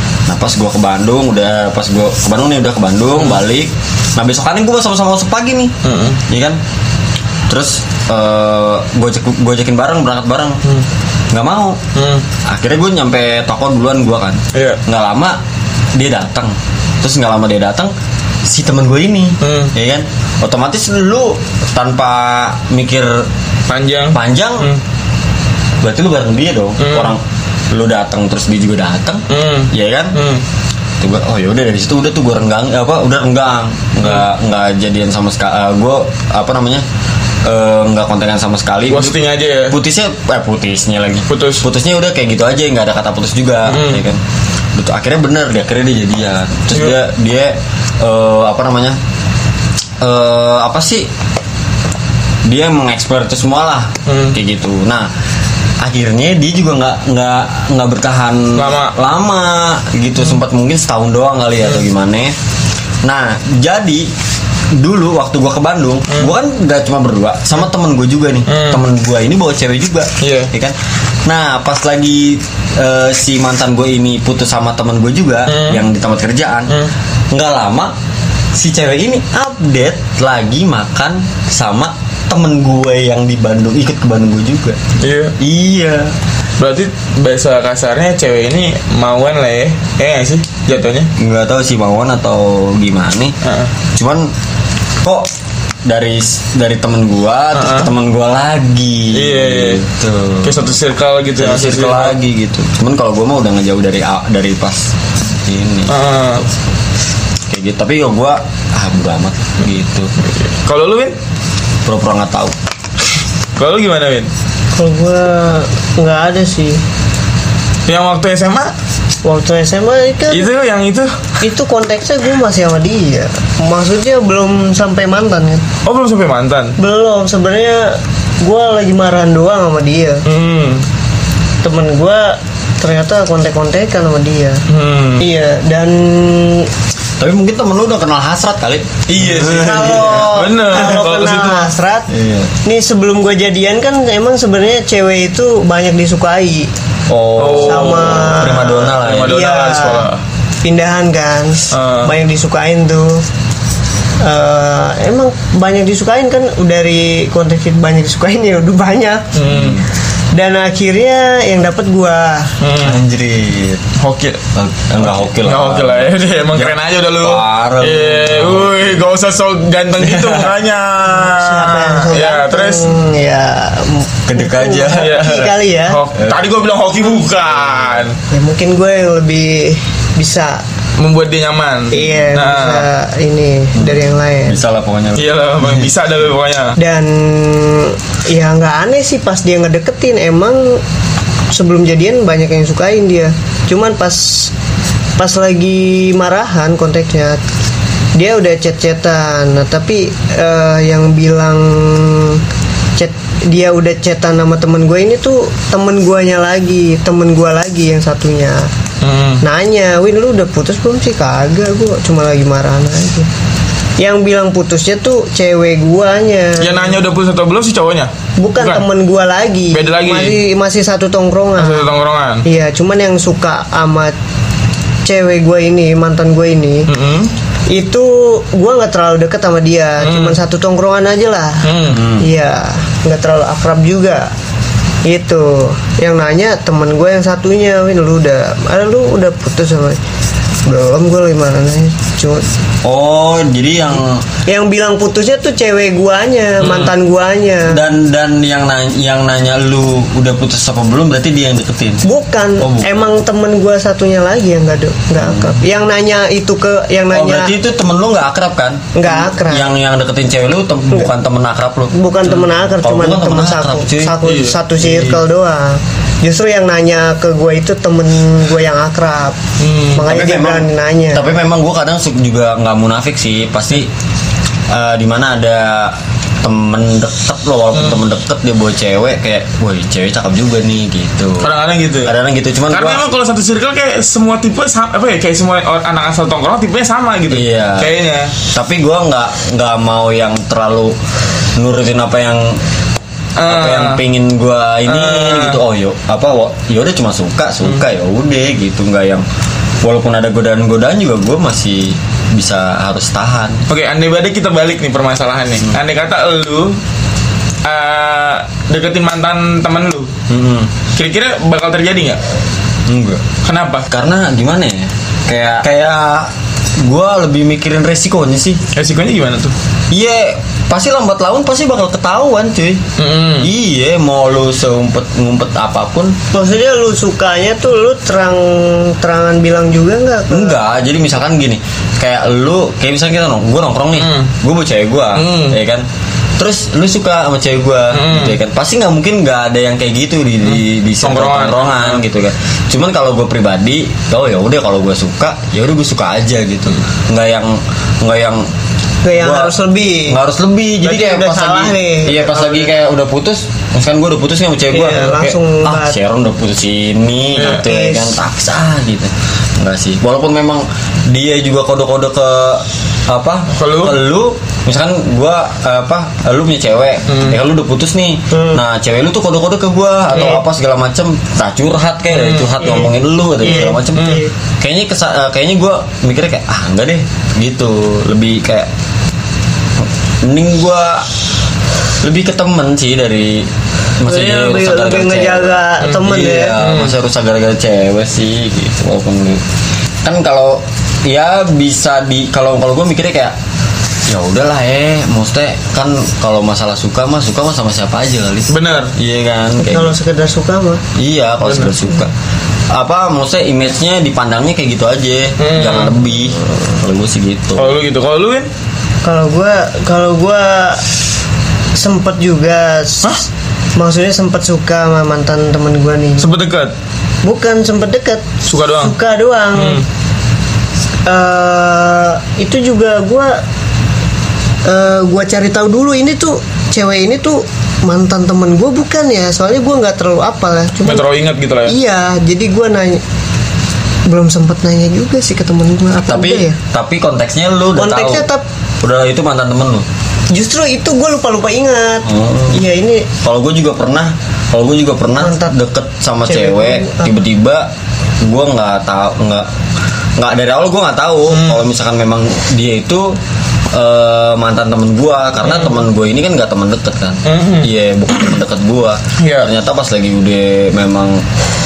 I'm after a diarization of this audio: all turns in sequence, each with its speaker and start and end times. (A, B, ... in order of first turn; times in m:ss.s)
0:00.3-0:05.7 A
0:05.8-0:06.2 B
0:06.3-0:06.6 A
0:07.5-0:10.6 A
0:11.3-0:11.8 A
0:11.9-0:12.2 B
0:12.4-0:15.4 A
0:14.5-0:14.8 B
0:15.9-0:17.9 A
0:18.4-0:23.3 A
0:19.4-0:19.7 B
0:23.7-0:24.8 B
0:24.1-0:24.7 A
0:25.8-0:30.2 A
0:26.8-0:27.1 B
0:29.3-0:30.4 B
0:31.0-0:36.8 A
0:37.4-0:39.2 A
0:38.9-0:39.8 B
0:39.7-0:44.2 A
0:41.3-0:41.6 B
0:43.6-0:44.0 B
0:44.7-0:49.0 A
0:50.0-0:51.1 A
0:52.4-0:55.1 A
0:54.1-0:54.4 B
0:55.8-1:02.4 A
0:58.6-0:59.0 B
1:03.0-1:04.1 A
1:04.7-1:16.8 A
1:08.5-1:08.8 B
1:10.2-1:10.5 B
1:15.5-1:15.8 B
1:17.3-1:17.9 A
1:18.5-1:24.8 A
1:25.0-1:25.4 B
1:25.4-1:26.2 A
1:26.6-1:31.1 B
1:31.1-1:33.4 A
1:33.4-1:33.7 B
1:33.9-1:34.3 A
1:35.0-1:35.3 A
1:35.8-1:40.7 A
1:37.5-1:37.9 B
1:39.1-1:39.8 B
1:40.4-1:42.2 B
1:41.4-1:46.5 A
1:45.9-1:46.4 B
1:47.5-1:50.1 A
1:50.2-1:51.1 B
1:51.8-1:52.6 A
1:53.6-1:54.3 B
1:54.8-1:56.8 C
1:57.9-1:58.7 B
1:59.2-2:00.5 C
2:00.3-2:01.4 B
2:01.4-2:05.6 C
2:05.8-2:06.8 B
2:06.8-2:10.2 C
2:10.2-2:10.9 B
2:11.6-2:14.6 C
2:14.7-2:15.2 B
2:15.2-2:16.7 C
2:17.2-2:20.4 A
2:19.1-2:21.7 B
2:19.5-2:22.1 C
2:22.1-2:22.5 A
2:22.6-2:26.7 C
2:27.1-2:29.4 A
2:27.4-2:30.2 B
2:27.5-2:30.1 C
2:30.6-2:33.2 C
2:31.7-2:32.1 B
2:34.2-2:39.4 C
2:39.3-2:39.8 B
2:39.4-2:39.8 A
2:40.3-2:42.6 C
2:42.6-2:43.0 B
2:42.8-2:43.9 A
2:44.0-2:44.4 B
2:44.5-2:49.0 A
2:45.4-2:52.8 B
2:50.0-2:50.5 A
2:51.0-2:56.0 C
2:54.2-2:55.5 A
2:54.9-2:58.2 B
2:56.1-2:56.4 A
2:57.4-2:58.0 A
2:58.3-3:00.6 C
3:01.0-3:02.8 B
3:01.9-3:04.6 C
3:03.8-3:05.9 A
3:05.2-3:06.8 B
3:06.8-3:10.8 C
3:11.5-3:14.5 C
3:15.2-3:17.4 C
3:18.1-3:22.4 C
3:23.0-3:28.7 C
3:29.0-3:29.4 B
3:29.4-3:33.3 C
3:34.0-3:37.0 C
3:36.6-3:38.8 B
3:38.4-3:41.9 C
3:39.7-3:40.4 B
3:41.6-3:42.4 B
3:42.4-3:44.1 C
3:45.0-3:46.9 C
3:46.9-3:47.3 B
3:47.7-3:54.3 C
3:50.0-3:50.4 B
3:51.6-3:52.0 B
3:51.9-3:52.3 A
3:55.0-4:00.0 C
4:00.6-4:02.4 C
4:02.8-4:04.2 A
4:04.4-4:07.8 C
4:06.6-4:06.9 B
4:07.6-4:12.0 A
4:12.0-4:17.5 C
4:12.6-4:13.1 A
4:15.2-4:15.6 A
4:17.1-4:21.9 A
4:18.9-4:19.7 C
4:21.9-4:29.4 C
4:22.7-4:24.2 A
4:24.2-4:25.2 B
4:29.6-4:30.0 B
4:29.9-4:31.2 C
4:30.0-4:33.9 A
4:34.7-4:43.0 A
4:37.7-4:38.0 B
4:41.4-4:42.1 B
4:42.7-4:48.3 B
4:47.3-4:47.9 A
4:48.5-4:51.0 A
4:51.6-4:52.6 A
4:53.4-4:54.0 B
4:53.4-4:59.2 A
4:54.9-4:55.6 B
4:59.8-5:03.6 A
5:03.7-5:06.8 B
5:07.6-5:10.1 B
5:10.3-5:10.7 A
5:10.9-5:12.2 B
5:12.9-5:13.2 A
5:13.4-5:13.9 B
5:13.9-5:18.6 A
5:18.7-5:19.5 B
5:19.9-5:22.8 A
5:23.0-5:23.5 B
5:23.4-5:26.2 A
5:26.3-5:30.6 C
5:30.3-5:35.8 A
5:34.0-5:34.3 B
5:35.2-5:35.6 B
5:36.4-5:48.5 A
5:37.9-5:38.4 B
5:40.5-5:42.0 B
5:49.0-5:50.2 C
5:49.1-6:18.7 A
5:50.8-5:52.7 C
5:54.7-5:56.0 C
5:57.3-5:57.6 B
5:57.4-5:58.2 C
6:03.5-6:04.0 B
6:07.1-6:07.4 B
6:08.3-6:08.6 C
6:10.1-6:10.4 B
6:12.1-6:12.9 B
6:13.4-6:14.3 C
6:13.6-6:14.2 B
6:20.2-6:21.1 A
6:22.0-6:29.4 A
6:24.0-6:26.6 C
6:26.6-6:26.9 B
6:30.0-6:33.3 A
6:34.1-6:40.0 A
6:38.5-6:38.9 B
6:39.6-6:40.8 C
6:40.9-6:42.1 A
6:41.4-6:41.7 B
6:42.7-6:47.8 A
6:45.4-6:45.9 B
6:47.6-6:48.5 B
6:49.0-6:50.8 C
6:51.8-6:56.3 C
6:56.2-6:56.7 B
6:57.2-6:59.8 C
6:58.4-6:58.9 B
6:59.5-6:59.8 B
7:01.0-7:03.4 C
7:04.6-7:11.0 C
7:10.8-7:11.7 B
7:11.7-7:13.0 C
7:14.1-7:16.6 C
7:16.0-7:18.3 A
7:17.8-7:18.4 C
7:18.8-7:19.8 A
7:20.3-7:23.1 C
7:22.0-7:22.6 A
7:23.2-7:27.7 A
7:25.2-7:25.5 C
7:26.2-7:27.1 C
7:28.2-7:29.5 A
7:30.2-7:33.2 A
7:31.3-7:31.6 B
7:33.7-7:41.2 A
7:35.4-7:35.7 B
7:37.2-7:37.7 B
7:39.2-7:39.5 B